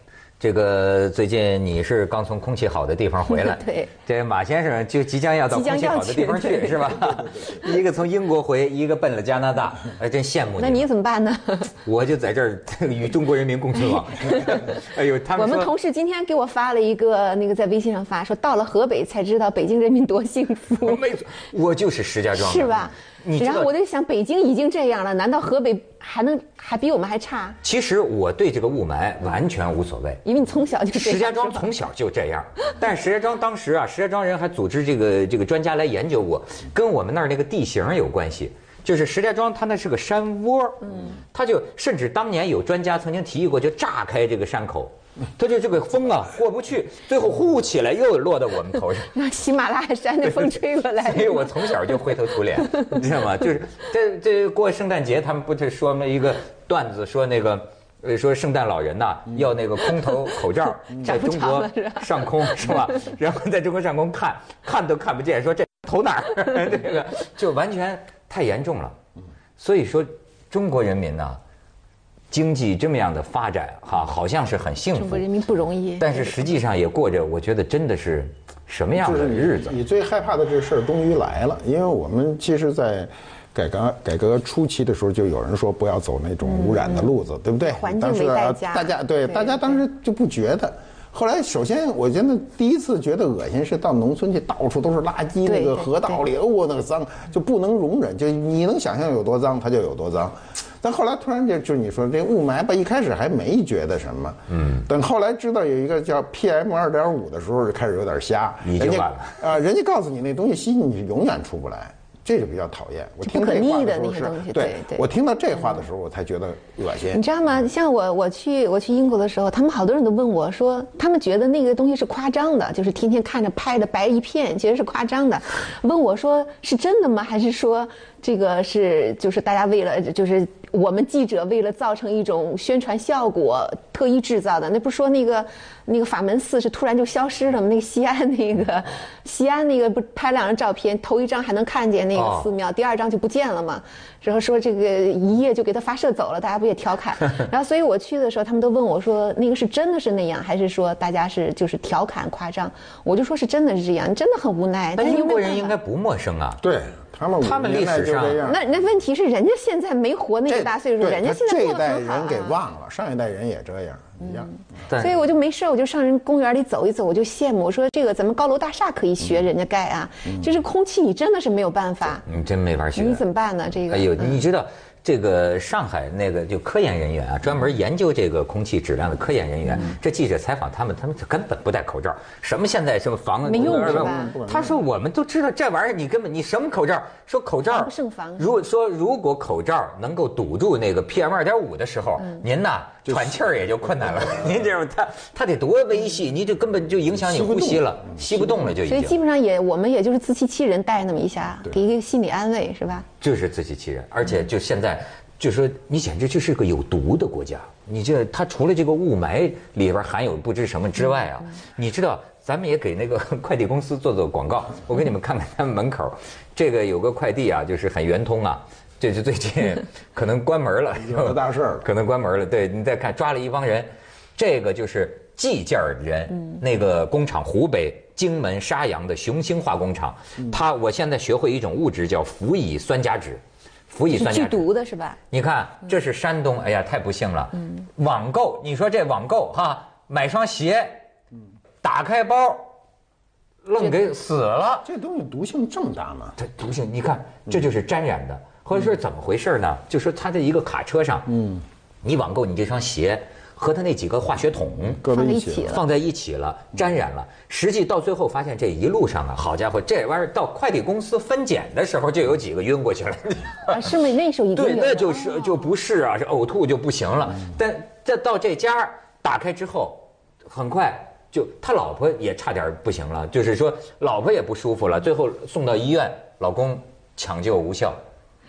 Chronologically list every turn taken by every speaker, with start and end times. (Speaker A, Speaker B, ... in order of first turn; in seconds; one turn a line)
Speaker A: 0.4-10.9
Speaker B: 3.3-3.9
Speaker B: 5.5-7.1
Speaker B: 10.6-11.7
Speaker A: 11.8-15.7
Speaker B: 15.3-21.1
Speaker A: 20.8-23.7
Speaker B: 22.4-27.6
Speaker A: 27.6-30.2
Speaker B: 30.2-31.7
Speaker A: 30.9-49.1
Speaker B: 49.1-52.8
Speaker A: 50.2-69.0
Speaker B: 60.9-62.9
Speaker A: 69.6-71.4
Speaker A: 72.3-75.2
Speaker B: 74.9-76.4
Speaker A: 76.0-79.8
Speaker C: 79.0-117.2
Speaker B: 86.4-87.1
Speaker B: 87.7-89.8
Speaker B: 95.5-96.2
Speaker A: 104.5-104.8
Speaker A: 108.7-109.4
Speaker B: 113.2-115.0
Speaker B: 117.1-155.8
Speaker A: 142.1-142.5
Speaker A: 155.0-156.6
Speaker C: 156.6-158.6
Speaker A: 157.4-158.4
Speaker B: 158.4-162.6
Speaker C: 160.5-164.5
Speaker A: 164.9-165.2
Speaker B: 165.0-172.2
Speaker A: 172.2-173.2
Speaker B: 172.9-174.4
Speaker A: 173.9-199.2
Speaker B: 183.4-184.4
Speaker C: 183.5-184.8
Speaker B: 187.7-188.6
Speaker C: 193.1-194.7
Speaker C: 197.1-198.7
Speaker B: 198.8-203.1
Speaker A: 203.2-234.7
Speaker C: 221.0-221.9
Speaker B: 234.1-235.2
Speaker A: 235.3-241.0
Speaker A: 241.8-242.7
Speaker A: 243.7-244.9
Speaker C: 244.8-246.4
Speaker A: 246.4-251.3
Speaker C: 251.3-251.6
Speaker A: 252.0-255.0
Speaker C: 255.0-255.8
Speaker B: 255.1-255.8
Speaker A: 255.7-263.9
Speaker B: 263.7-265.7
Speaker A: 264.6-278.0